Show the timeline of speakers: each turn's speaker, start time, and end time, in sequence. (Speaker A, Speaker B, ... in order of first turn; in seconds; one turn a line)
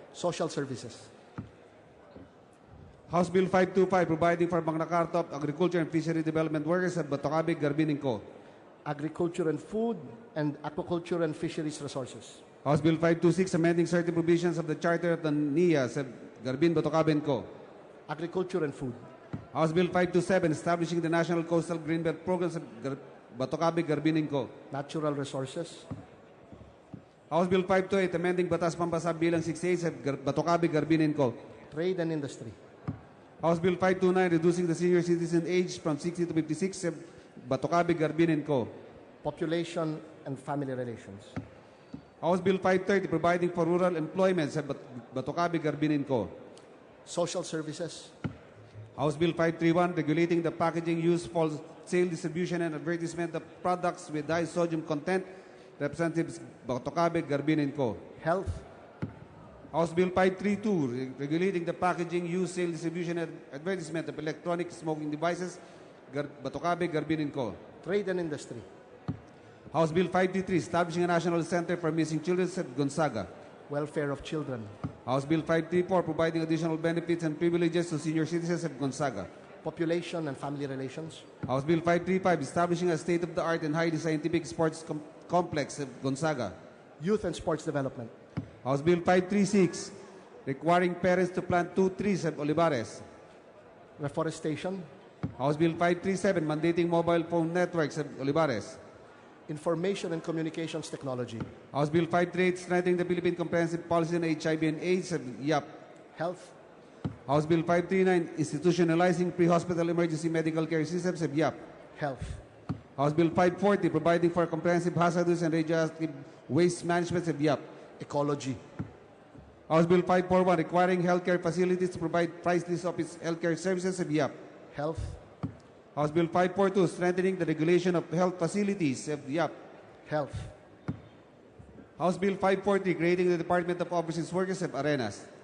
Speaker A: 0.1-1.1
Speaker B: 3.1-8.2
Speaker A: 8.8-12.4
Speaker B: 12.6-17.5
Speaker A: 18.1-19.0
Speaker B: 19.5-24.5
Speaker A: 24.7-25.9
Speaker B: 27.3-31.4
Speaker A: 31.7-32.5
Speaker B: 33.4-38.7
Speaker A: 39.2-41.3
Speaker B: 42.2-46.3
Speaker A: 47.0-48.1
Speaker B: 49.0-55.3
Speaker B: 55.8-58.0
Speaker A: 58.2-58.6
Speaker B: 59.7-65.6
Speaker B: 66.1-67.6
Speaker A: 67.8-68.7
Speaker B: 69.7-73.3
Speaker A: 73.7-74.7
Speaker B: 75.1-79.3
Speaker A: 79.6-81.2
Speaker B: 81.5-86.5
Speaker A: 87.0-88.1
Speaker B: 88.6-89.9
Speaker B: 90.5-93.0
Speaker A: 94.0-94.9
Speaker B: 95.4-98.8
Speaker A: 99.5-101.5
Speaker B: 101.7-105.7
Speaker A: 106.2-106.5
Speaker B: 107.3-111.6
Speaker A: 112.0-112.4
Speaker B: 113.0-117.6
Speaker A: 118.0-118.6
Speaker B: 119.7-124.3
Speaker A: 124.7-125.2
Speaker B: 125.9-129.5
Speaker A: 130.1-130.5
Speaker B: 132.0-135.3